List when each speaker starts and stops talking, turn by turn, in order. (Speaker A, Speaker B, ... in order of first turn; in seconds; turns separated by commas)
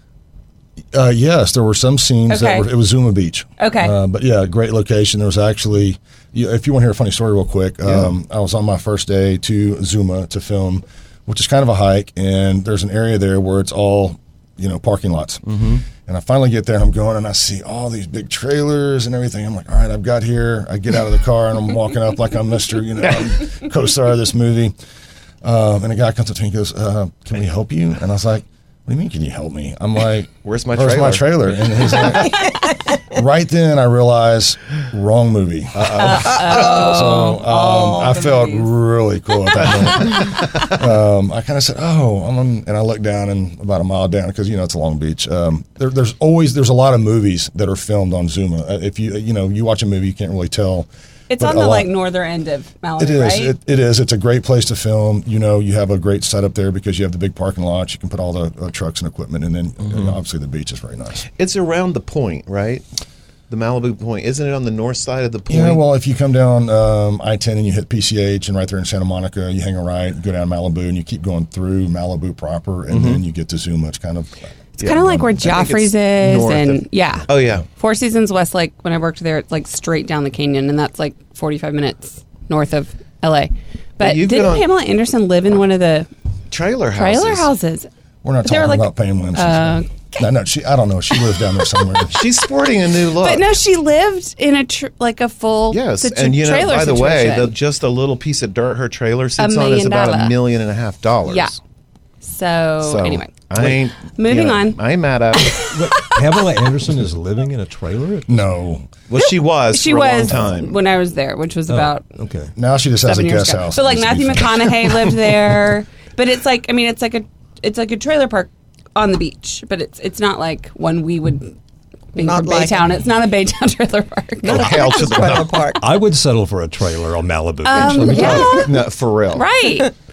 Speaker A: 0.9-24.8, Speaker B: 2.3-2.7, Speaker B: 3.6-4.0, Speaker C: 7.8-8.1, Speaker C: 15.4-15.8, Speaker A: 25.4-51.9, Speaker C: 30.4-32.4, Speaker D: 32.4-32.7, Speaker C: 35.7-36.2, Speaker B: 35.9-38.7, Speaker D: 36.5-37.0, Speaker B: 51.3-53.5, Speaker A: 53.0-61.2, Speaker C: 61.3-62.8, Speaker C: 63.5-65.8, Speaker A: 65.5-75.5, Speaker C: 72.9-73.2, Speaker C: 74.8-77.6, Speaker B: 74.8-86.1, Speaker C: 84.0-84.7, Speaker C: 86.5-87.5, Speaker B: 86.9-87.9, Speaker A: 88.2-92.2, Speaker B: 88.4-90.3, Speaker C: 92.1-93.5, Speaker B: 93.1-97.5, Speaker C: 95.7-101.6, Speaker B: 99.4-100.4, Speaker B: 101.2-101.5, Speaker B: 102.2-106.2, Speaker C: 102.8-105.5, Speaker E: 105.7-108.4, Speaker A: 108.3-108.9, Speaker C: 109.1-110.8, Speaker B: 109.2-112.0, Speaker E: 111.7-112.5, Speaker A: 112.5-114.9, Speaker B: 113.0-121.5, Speaker B: 122.1-125.0, Speaker D: 122.2-122.8, Speaker C: 124.4-125.4, Speaker D: 124.5-125.8, Speaker E: 125.8-128.7, Speaker B: 127.6-128.8, Speaker D: 127.9-128.6, Speaker C: 128.5-129.4, Speaker B: 129.3-129.9